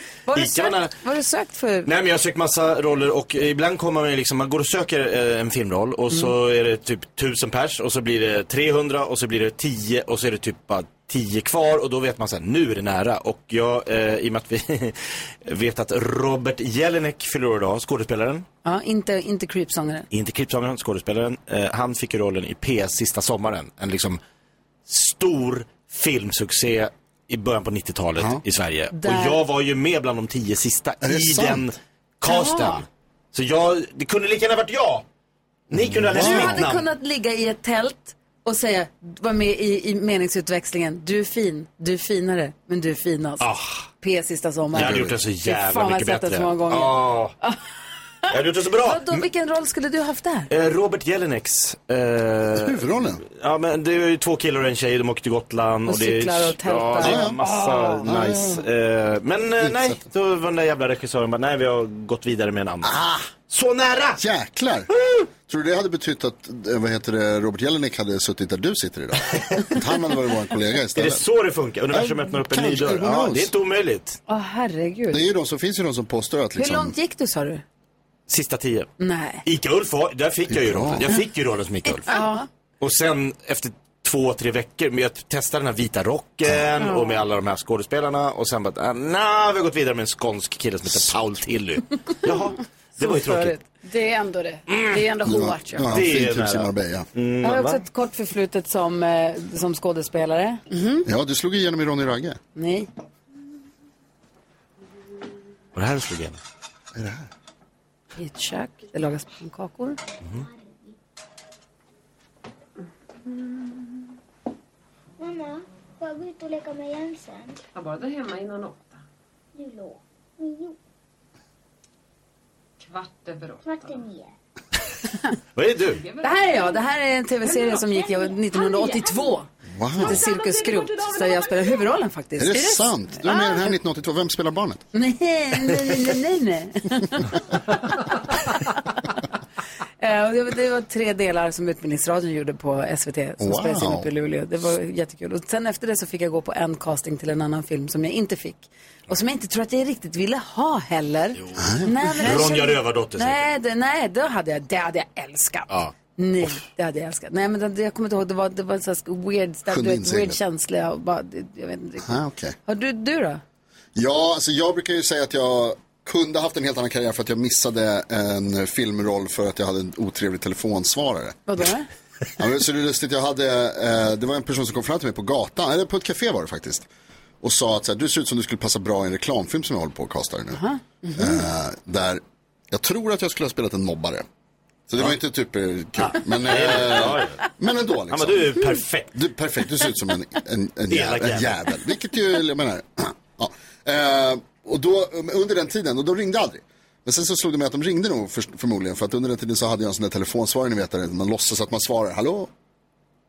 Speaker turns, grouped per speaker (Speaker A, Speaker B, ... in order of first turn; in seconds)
Speaker A: 0.3-1.9, 18.6-20.1, 28.9-29.4, 36.1-43.4, 44.0-47.6, 48.8-50.5, 55.9-58.0, 74.3-75.2, 76.6-77.6, 79.0-79.4, 82.1-82.4, 93.0-93.7, 97.4-100.6, 102.5-102.9, 108.2-110.0, 126.2-129.5, 130.0-133.4, 134.9-137.6, 138.1-138.8, 140.0-163.4, 171.5-171.9, 180.5-180.8
Speaker B: 0.3-0.9, 1.8-18.4, 20.1-24.2, 24.9-35.0, 35.7-36.9, 43.4-43.9, 44.7-47.3, 48.3-49.2, 50.5-64.2, 64.9-65.3, 70.9-74.2, 78.3-78.9, 79.4-82.1, 82.8-93.5, 94.7-95.0, 95.9-97.8, 105.7-106.4, 125.5-126.0, 151.4-153.4, 186.0-187.4, 188.1-189.1, 190.9-191.6
Speaker C: 31.0-31.6, 35.7-36.7, 44.7-45.2, 52.5-53.2, 57.0-57.4, 58.0-58.6, 59.6-60.0, 62.8-63.3, 64.2-64.9, 65.4-71.2, 71.9-73.5, 75.1-76.9, 80.5-81.1, 95.2-97.1, 101.0-102.4, 106.9-107.3, 129.7-130.2, 132.4-134.8, 143.4-144.1, 151.6-151.9, 159.7-160.4, 162.0-162.6, 163.9-171.7, 172.4-176.9, 177.4-180.6, 181.1-184.2, 184.9-202.5
Speaker D: 32.3-32.8, 82.1-82.4, 86.8-87.2, 93.8-95.9, 100.7-101.1
Speaker E: 110.4-110.9, 115.2-117.6, 119.5-120.8, 123.6-124.3
Speaker F: 117.7-119.0, 122.8-124.0, 126.0-126.8, 127.5-128.1, 130.2-131.8